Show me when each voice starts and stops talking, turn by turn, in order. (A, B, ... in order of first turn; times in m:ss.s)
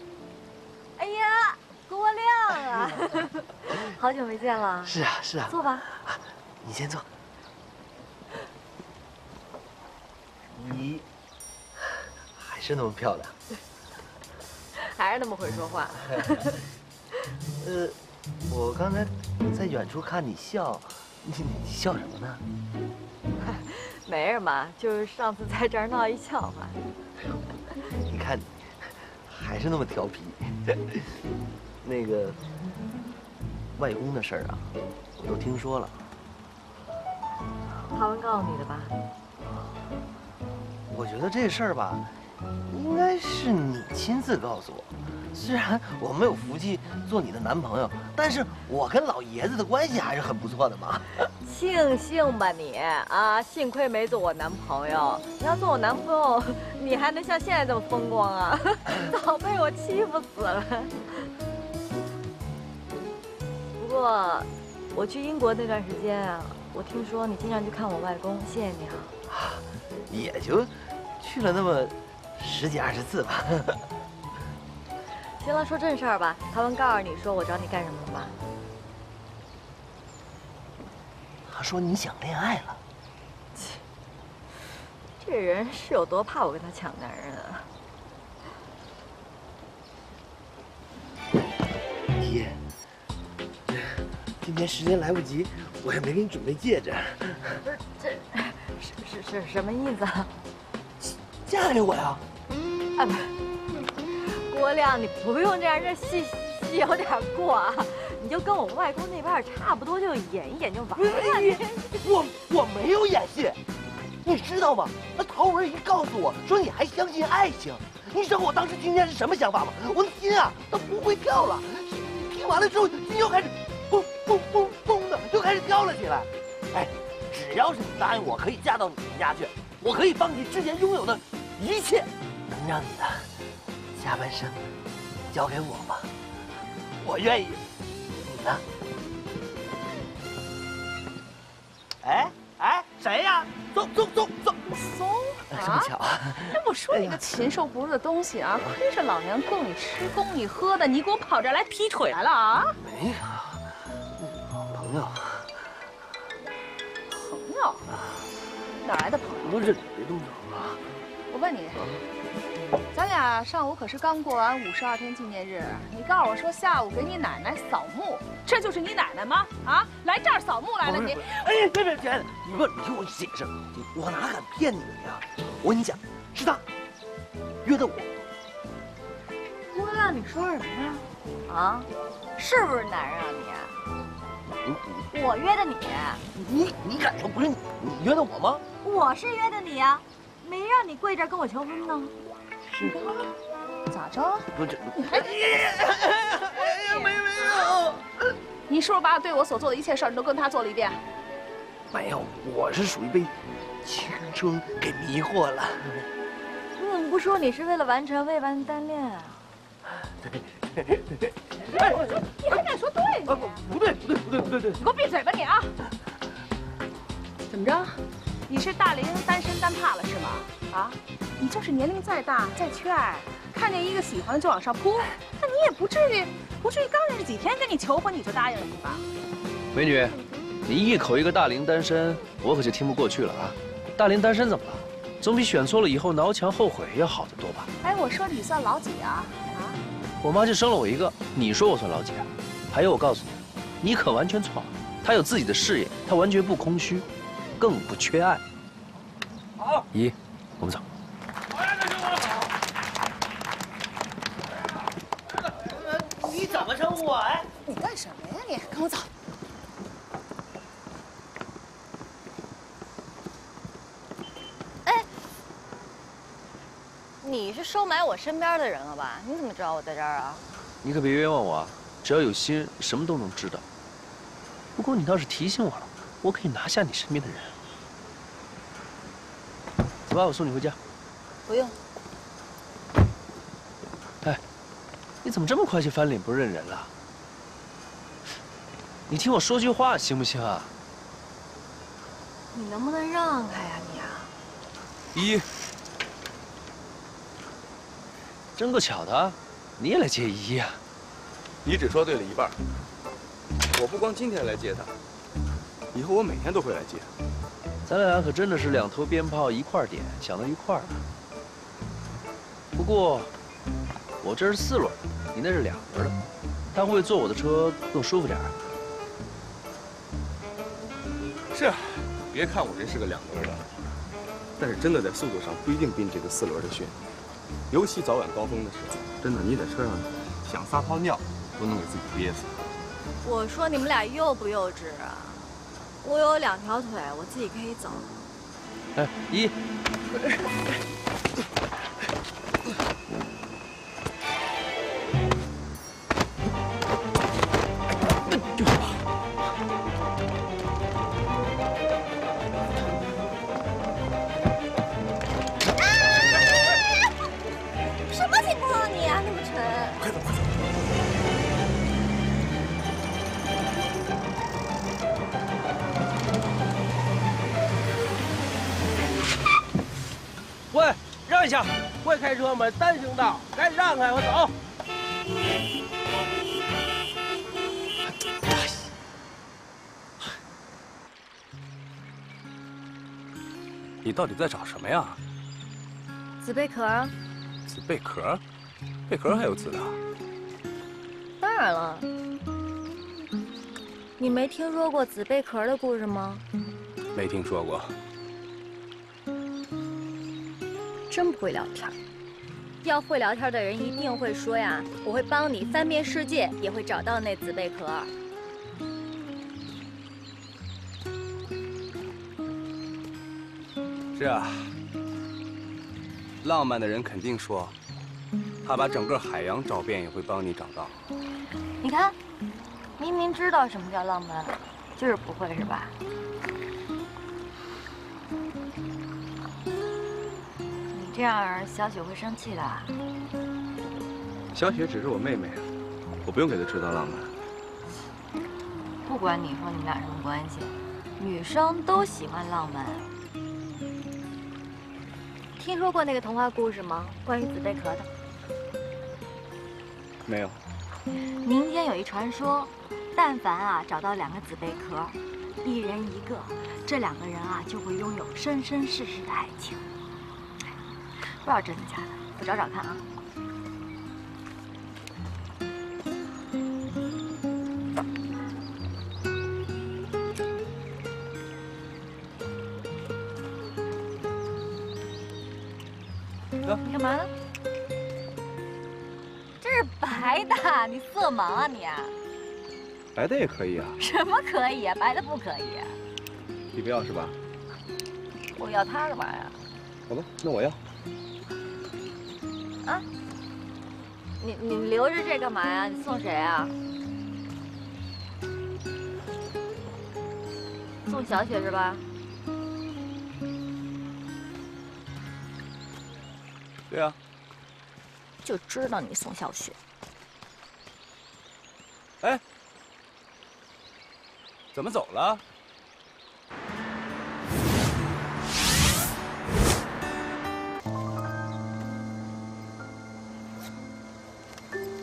0:01.0-0:05.0 A
0:04.8-0:07.0 B
0:05.5-0:05.8 A
0:10.5-0:11.0 B
0:12.3-0:13.3 B
0:14.8-0:16.5 A
0:17.6-0:18.0 B
0:18.5-0:22.4 B
0:23.4-0:26.8 A
0:28.0-0:31.0 B
0:31.8-0:32.4 B
0:33.8-0:35.9 B
0:37.9-0:38.9 A
0:40.9-0:42.1 B
0:42.7-0:51.0 B
0:51.4-1:01.3 A
1:03.8-1:09.1 A
1:09.3-1:13.8 B
1:15.4-1:18.4 A
1:21.5-1:22.8 B
1:23.5-1:23.8 A
1:25.2-1:27.7 A
1:32.2-1:32.6 B
1:33.7-1:37.6 B
1:37.6-1:40.3 A
1:41.4-1:42.2 B
1:43.0-1:51.8 A
1:51.0-1:53.6 B
1:54.2-2:13.3 B
2:14.0-2:14.6 B
2:15.3-2:16.1 B
2:17.0-2:17.6 B
2:18.2-2:18.6 B
2:22.0-2:24.6 B
2:24.7-2:32.7 C
2:25.5-2:27.2 B
2:32.8-2:33.6 B
2:34.2-2:35.5 B
2:37.1-2:37.8 C
2:38.8-2:39.7 C
2:39.4-2:40.8 B
2:41.3-2:41.9 C
2:42.9-2:51.2 C
2:50.8-2:56.6 B
2:57.6-2:58.1 B
2:59.7-3:03.8 A
3:04.6-3:05.0 B
3:05.1-3:06.2 A
3:06.4-3:08.6 B
3:08.8-3:12.1 A
3:12.7-3:13.2 B
3:13.9-3:14.5 C
3:14.5-3:18.0 B
3:15.0-3:15.3 C
3:16.6-3:17.8 C
3:18.7-3:21.0 C
3:21.9-3:23.3 B
3:23.8-3:26.0 B
3:26.8-3:29.4 A
3:30.2-3:31.8 B
3:31.8-3:33.6 C
3:33.2-3:34.8 B
3:34.8-3:35.7 C
3:37.5-3:49.0 C
3:49.7-3:57.7 D
3:57.8-3:59.8 C
4:00.2-4:07.1 D
4:07.6-4:08.4 D
4:09.9-4:10.8 D
4:11.6-4:12.2 E
4:16.2-4:17.4 B
4:27.2-4:30.4 A
4:30.8-4:33.6 D
4:34.8-4:37.5 D
4:40.1-4:40.8 D
4:45.2-4:46.9 D
4:49.1-4:50.7 D
4:52.5-4:54.3 A
4:55.1-4:55.4 F
4:58.5-5:00.8 D
5:01.6-5:02.6 F
5:03.7-5:04.9 F
5:05.9-5:07.1 F
5:07.8-5:11.0 D
5:12.7-5:13.3 D
5:14.2-5:16.1 D
5:16.7-5:18.5 D
5:21.5-5:23.6 F
5:24.6-5:26.9 F
5:27.7-5:32.5 F
5:33.2-5:35.5 A
5:36.0-5:38.2 A
5:39.0-5:39.5 D
5:55.9-5:56.8 A
5:58.1-6:00.0 A
6:10.7-6:14.5 E
6:24.0-6:25.2 F
6:26.4-6:27.1 A
6:27.7-6:28.4 F
6:29.1-6:30.0 F
6:31.4-6:32.1 A
6:34.2-6:36.4 A
6:37.1-6:37.9 F
6:41.1-6:41.9 A
6:42.8-6:48.1 A
6:54.1-6:54.7 F
6:56.4-6:57.8 F
6:58.6-7:01.0 F
7:01.8-7:02.2 A
7:03.0-7:06.0 A
7:10.9-7:12.9 A
7:14.5-7:15.7 F
7:16.2-7:17.3 F
7:19.0-7:23.1 A
7:25.6-7:28.1 A
7:30.2-7:30.6 F
7:31.4-7:39.9 A
7:41.4-7:43.0 A
7:56.8-7:57.3 A
7:59.6-8:02.1 A
8:03.1-8:04.0 F
8:04.0-8:06.0 A
8:06.7-8:07.3 F
8:08.5-8:09.6 A
8:10.1-8:10.8 F
8:14.4-8:16.7 A
8:21.0-8:22.0 A
8:26.9-8:27.2 F
8:28.4-8:29.8 A
8:34.7-8:35.4 F